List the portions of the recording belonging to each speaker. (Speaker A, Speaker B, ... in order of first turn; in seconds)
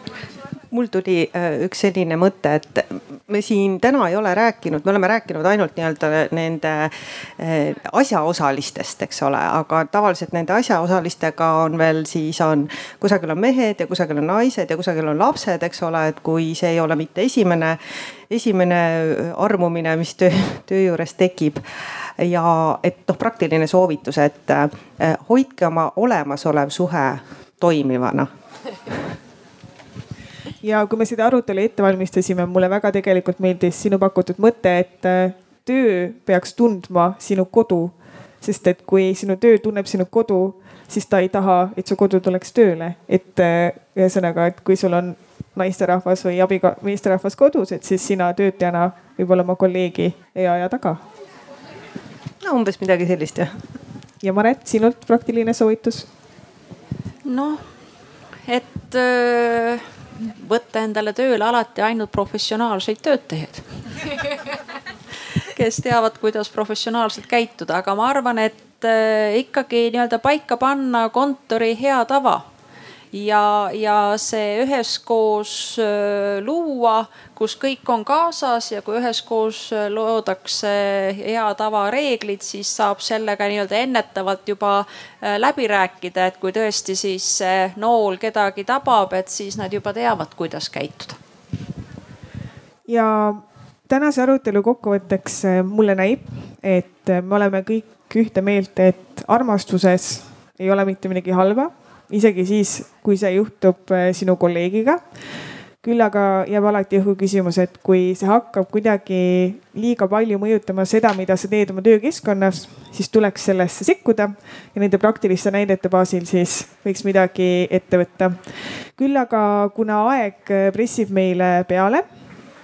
Speaker A: 0.7-17.8, 18.3-21.6, 22.2-28.3, 52.4-53.5
Speaker B: 30.6-51.0, 54.2-56.0, 92.9-105.0, 105.8-118.4, 119.0-122.0
Speaker C: 57.2-57.6, 58.5-63.6, 65.5-72.4, 73.1-91.2